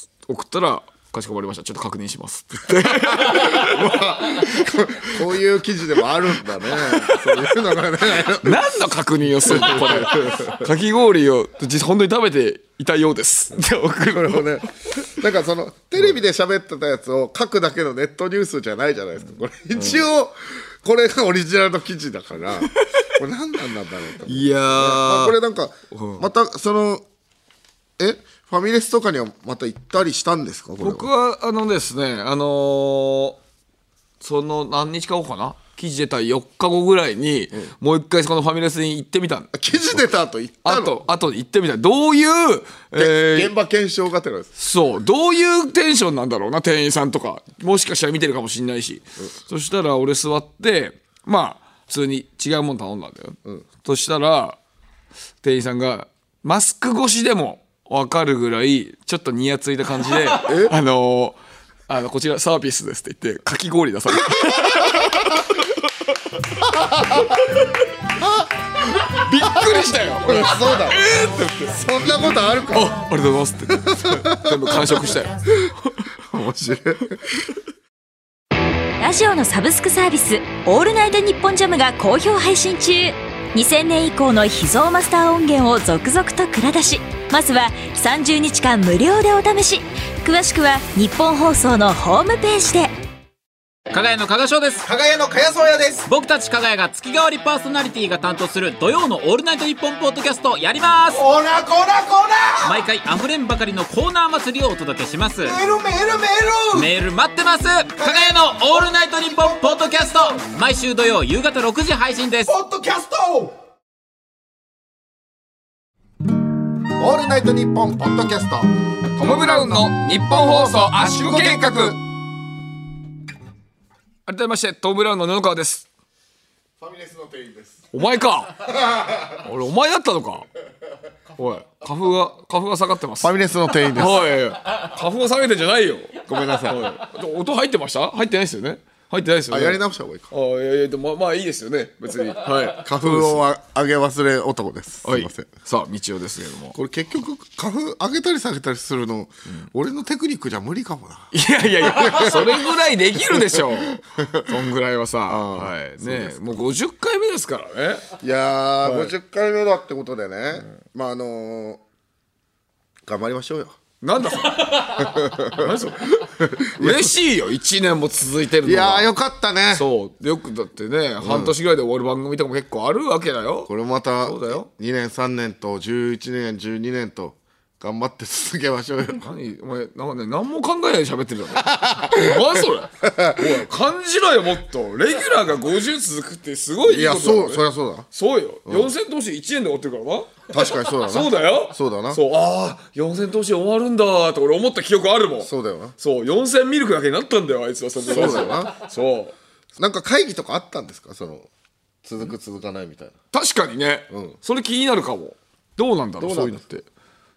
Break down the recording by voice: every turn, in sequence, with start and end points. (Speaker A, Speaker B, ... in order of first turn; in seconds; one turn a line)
Speaker A: 0.2-4.0
Speaker B: 2.8-8.7
Speaker A: 6.7-7.5
Speaker A: 8.4-14.6
Speaker B: 9.4-10.7
Speaker B: 14.1-27.1
Speaker A: 19.8-20.0
Speaker A: 22.7-23.1
Speaker A: 24.2-25.4
Speaker A: 25.9-26.3
Speaker B: 28.0-31.1
Speaker A: 30.8-33.4
Speaker A: 34.2-40.0
Speaker B: 39.5-41.0
Speaker A: 40.6-43.5
Speaker B: 43.0-44.5
Speaker A: 44.6-54.6
Speaker A: 55.4-65.8
Speaker B: 60.4-60.7
Speaker B: 64.3-65.2
Speaker B: 66.7-67.4
Speaker A: 67.2-67.8
Speaker B: 68.2-68.5
Speaker A: 69.0-71.8
Speaker B: 70.2-73.0
Speaker A: 72.7-76.1
Speaker B: 73.8-75.1
Speaker B: 76.2-77.5
Speaker C: 79.0-92.9
Speaker D: 93.9-94.9
Speaker E: 94.9-96.1
Speaker D: 96.1-101.2
Speaker E: 101.1-102.8
Speaker D: 102.6-105.6
Speaker E: 105.5-106.9
Speaker D: 106.7-112.5
Speaker E: 108.0-108.5
Speaker E: 112.5-113.5
Speaker B: 117.0-118.7
Speaker A: 119.2-122.0
Speaker B: 120.5-122.0
Speaker A: 124.3-125.9
Speaker B: 126.8-127.8
Speaker A: 127.9-128.6
Speaker B: 128.7-129.4
Speaker A: 129.4-130.5
Speaker A: 131.4-143.4
Speaker B: 133.2-134.3
Speaker B: 136.3-136.9
Speaker B: 139.5-140.3
Speaker B: 142.7-145.5
Speaker A: 145.0-146.8
Speaker B: 146.7-154.6
Speaker A: 151.3-158.1
Speaker B: 155.3-156.6
Speaker B: 158.2-161.8
Speaker A: 158.8-159.1
Speaker B: 163.1-163.8
Speaker A: 164.0-169.1
Speaker B: 165.0-167.1
Speaker B: 168.6-169.9
Speaker A: 169.7-173.7
Speaker B: 171.2-171.6
Speaker B: 173.7-179.3
Speaker A: 174.2-174.7
Speaker A: 179.2-199.4
Speaker B: 181.6-183.6
Speaker B: 186.9-188.1
Speaker B: 188.7-188.9
Speaker B: 190.5-192.2
Speaker B: 195.4-196.0
Speaker B: 198.1-198.8
Speaker B: 199.8-201.5
Speaker B: 202.0-203.2
Speaker A: 203.3-206.9
Speaker B: 204.1-204.4
Speaker B: 206.2-206.6